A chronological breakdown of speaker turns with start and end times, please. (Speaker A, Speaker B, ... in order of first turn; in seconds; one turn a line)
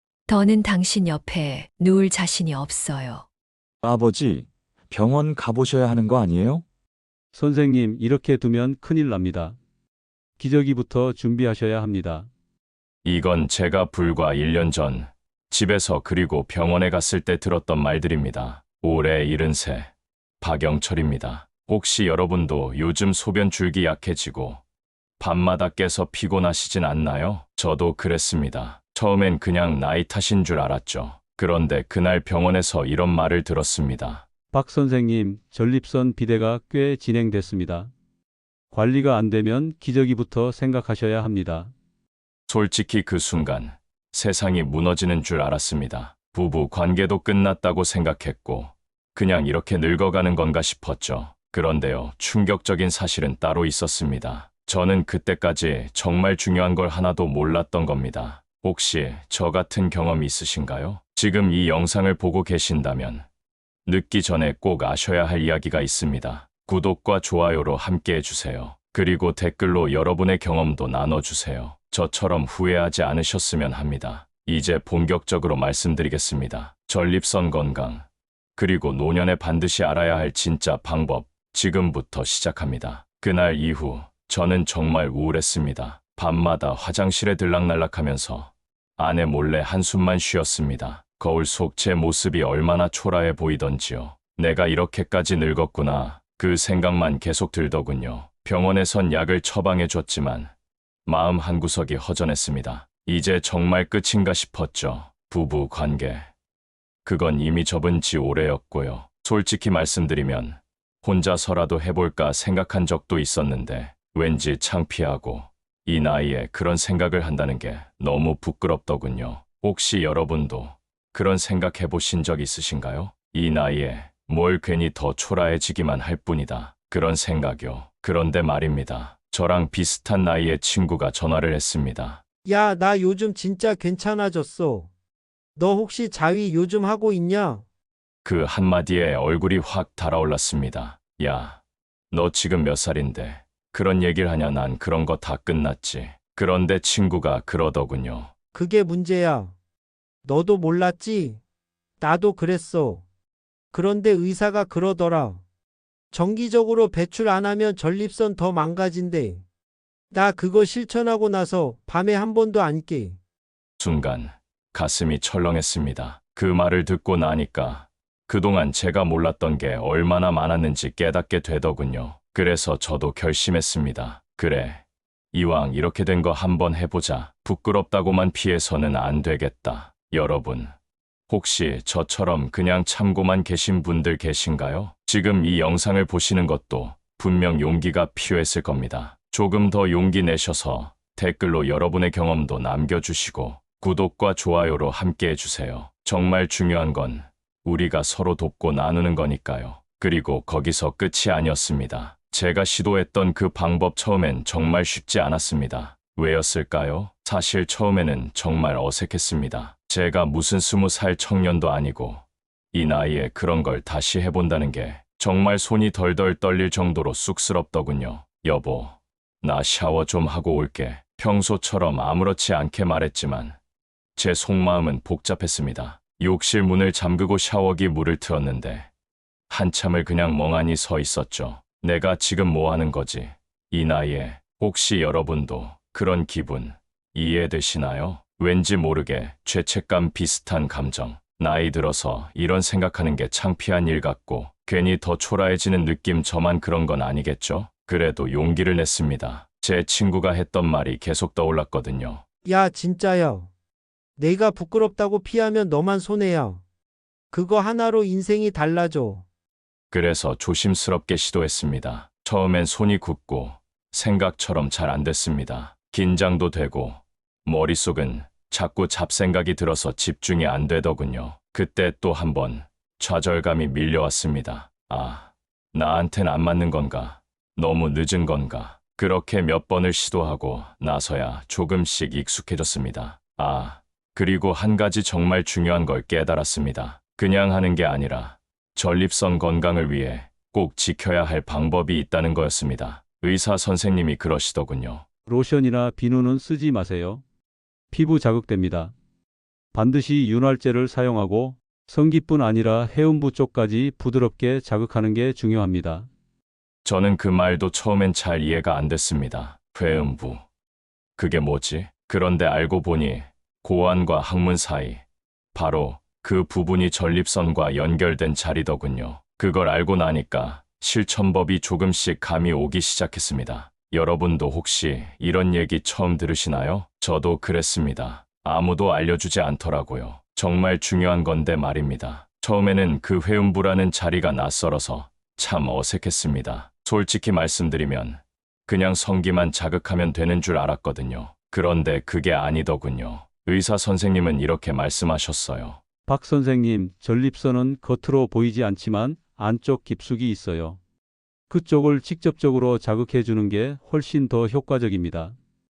Speaker A: 0.3-3.3
Speaker B: 3.8-6.6
Speaker C: 7.3-9.6
Speaker C: 10.4-12.3
Speaker D: 13.0-24.6
Speaker D: 25.2-34.3
Speaker C: 34.5-37.9
Speaker C: 38.7-41.7
Speaker D: 42.5-63.3
Speaker D: 63.9-100.5
Speaker D: 101.0-106.3
Speaker D: 107.0-132.2
Speaker E: 132.4-134.9
Speaker E: 135.6-137.6
Speaker D: 138.2-148.3
Speaker E: 148.5-149.5
Speaker E: 150.2-151.4
Speaker E: 152.0-153.0
Speaker E: 153.7-155.4
Speaker E: 156.1-159.4
Speaker E: 160.1-163.2
Speaker D: 163.8-180.7
Speaker D: 181.3-223.6
Speaker D: 224.2-228.9
Speaker D: 229.5-252.2
Speaker E: 252.4-253.5
Speaker E: 254.2-256.6
Speaker E: 257.3-259.2
Speaker D: 259.9-295.1
Speaker C: 295.3-297.2
Speaker C: 297.9-298.9
Speaker C: 299.7-306.1
Speaker D: 306.8-310.4
Speaker D: 311.2-345.8
Speaker C: 346.1-350.8
Speaker C: 351.5-355.3